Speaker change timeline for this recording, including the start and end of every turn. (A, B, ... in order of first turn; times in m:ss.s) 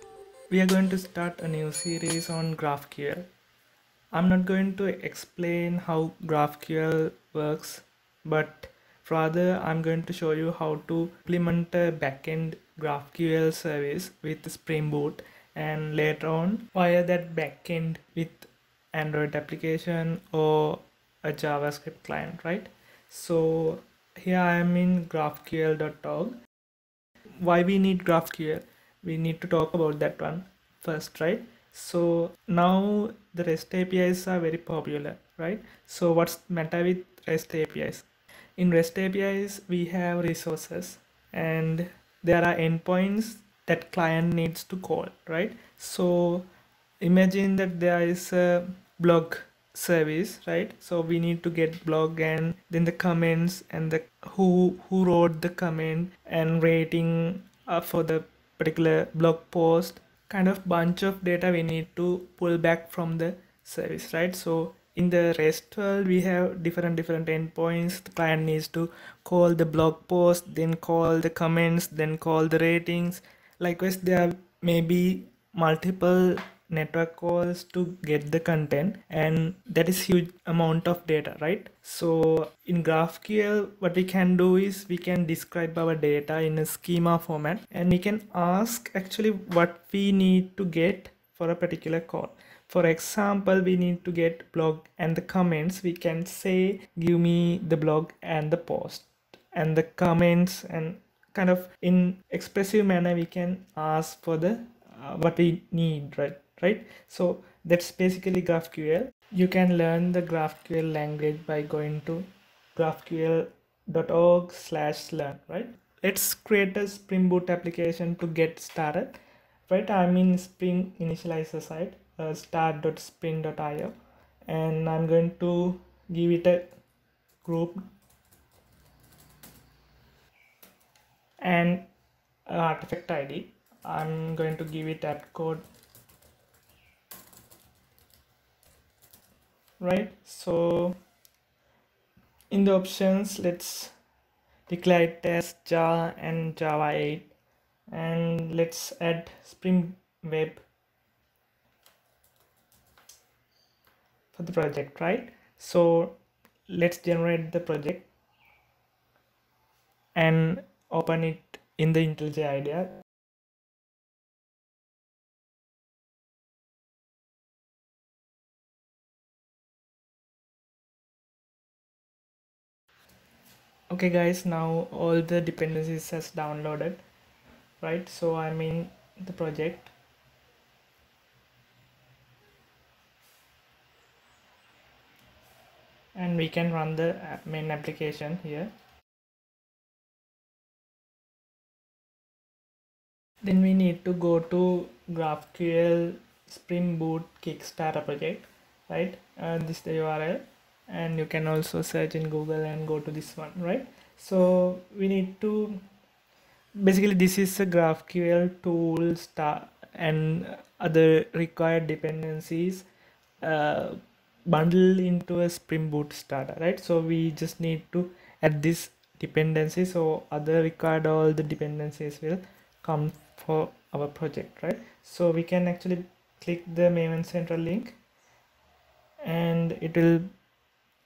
0:00.5-0:03.3 A
0:04.1-0:26.4 A
0:27.4-0:38.1 A
0:38.6-0:46.5 A
0:47.0-2:03.9 A
2:04.5-2:06.7 A
2:07.4-2:07.8 A
2:11.4-2:11.9 A
2:12.5-2:15.6 A
2:19.8-2:21.0 A
2:22.5-2:23.9 A
2:24.7-2:27.3 A
2:27.9-2:30.6 A
2:34.3-2:38.1 A
2:40.2-2:42.9 A
2:53.9-2:57.0 A
2:57.8-2:59.9 A
3:06.2-3:08.7 A
3:13.4-3:25.8 A
3:26.8-3:32.9 A
3:33.4-3:48.0 A
3:49.2-3:50.3 A